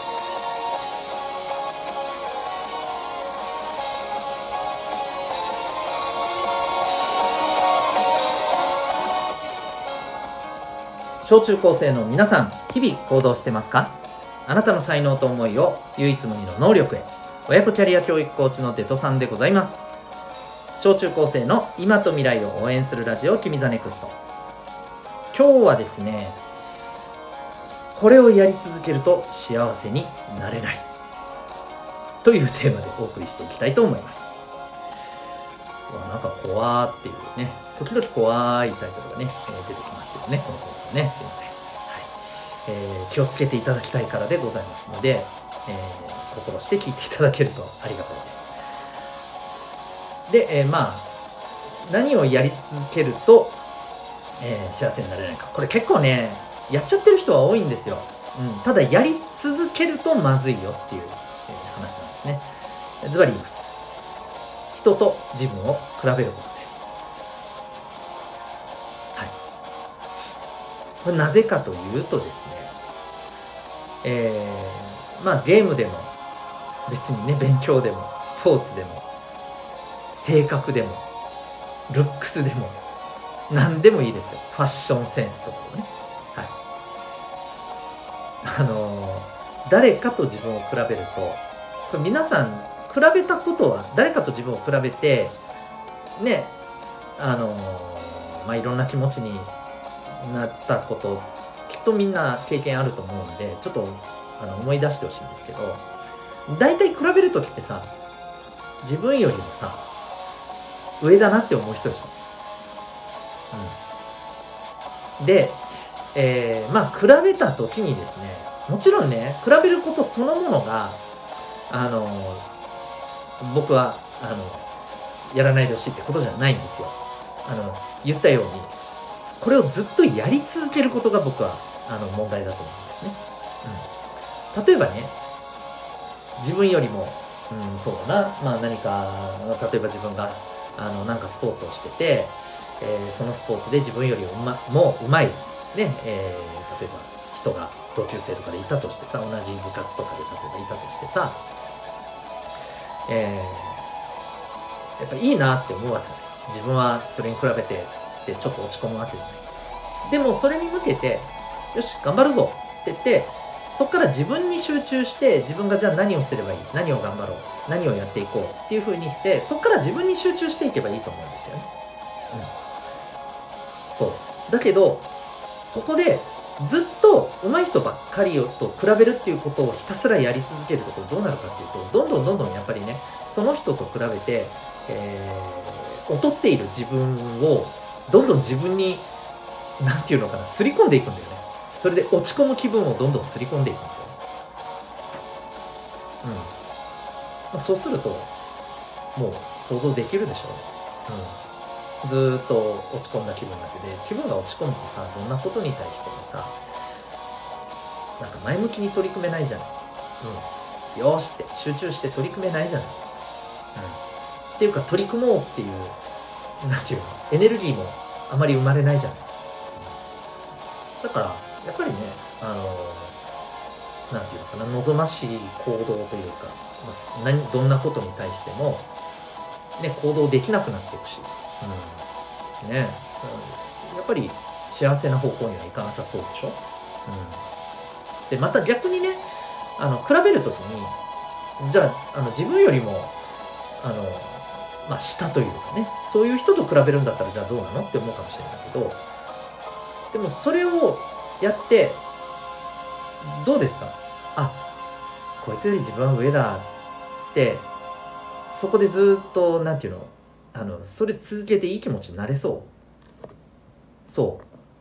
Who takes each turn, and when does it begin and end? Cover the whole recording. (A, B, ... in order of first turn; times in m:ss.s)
0:11.2-0:20.0 A
0:20.8-0:24.2 A
0:25.3-0:26.4 A
0:27.9-0:30.8 A
0:32.2-0:34.4 A
0:35.9-0:48.6 A
0:50.3-0:51.1 A
0:51.8-0:53.6 A
0:54.4-1:02.5 A
1:03.0-1:03.7 A
1:04.7-1:06.9 A
1:11.0-1:12.8 A
1:14.0-1:16.2 A
1:16.9-1:19.1 A
1:20.1-1:21.1 A
1:21.9-1:22.8 A
1:23.5-1:26.6 A
1:28.4-1:35.4 A
1:36.2-1:36.6 A
1:37.2-1:39.5 A
1:40.2-1:45.9 A
1:46.5-1:47.9 A
1:48.8-1:49.8 A
1:51.0-1:52.2 A
1:53.5-1:53.8 A
1:55.2-2:01.0 A
2:01.7-2:02.5 A
2:03.4-2:04.7 A
2:05.3-2:08.7 A
2:09.4-2:13.9 A
2:14.5-2:15.2 A
2:16.4-2:31.4 A
2:33.1-2:33.9 A
2:35.0-2:39.5 A
2:40.0-2:51.7 A
2:53.9-2:55.1 A
2:55.7-3:09.1 A
3:09.8-3:14.2 A
3:16.2-3:16.5 A
3:17.5-3:18.3 A
3:19.2-3:21.4 A
3:22.0-3:26.6 A
3:28.2-3:33.0 A
3:33.8-3:34.0 A
3:34.6-3:36.0 A
3:36.6-3:40.0 A
3:41.0-3:43.2 A
3:44.1-3:48.9 A
3:49.8-3:52.0 A
3:52.6-3:57.4 A
3:58.3-3:59.3 A
3:59.8-4:01.0 A
4:01.6-4:03.2 A
4:03.8-4:09.0 A
4:10.1-4:12.0 A
4:13.2-4:14.6 A
4:15.4-4:16.7 A
4:17.3-4:17.7 A
4:18.5-4:22.7 A
4:24.1-4:24.4 A